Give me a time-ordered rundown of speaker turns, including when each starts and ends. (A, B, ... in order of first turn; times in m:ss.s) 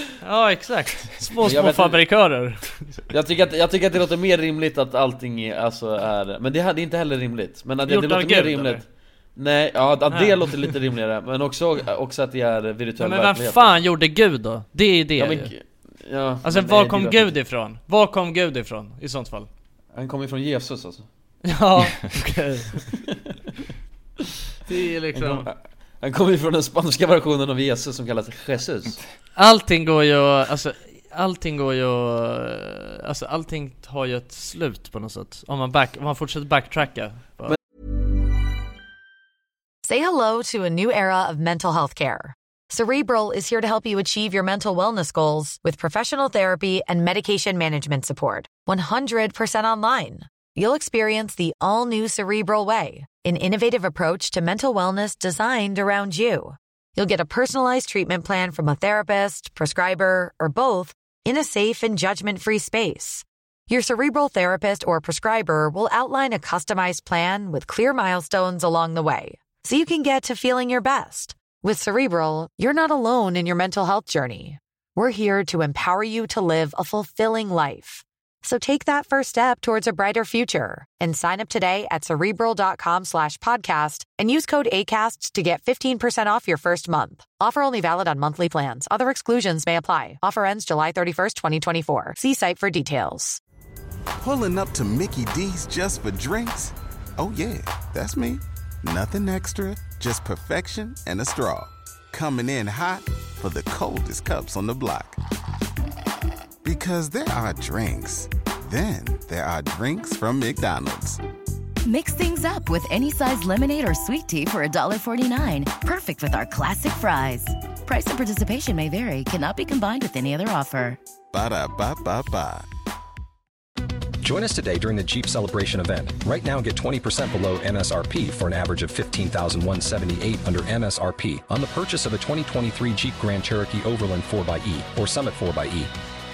0:00.2-0:02.9 A
0:01.4-0:02.0 B
0:03.1-0:13.8 B
0:07.9-0:08.8 A
0:10.1-0:10.7 A
0:13.0-0:15.5 A
0:15.2-0:17.4 B
0:16.4-0:19.5 A
0:19.9-0:21.1 B
0:21.4-0:22.9 A
0:23.1-0:23.4 B
0:24.6-0:25.5 A
0:25.1-0:29.0 B
0:29.4-0:37.6 A
0:39.8-1:33.4 C
1:34.2-1:45.2 D
1:46.6-1:51.2 D
1:51.8-2:01.0 E
2:01.3-2:02.7 D
2:04.2-2:15.9 F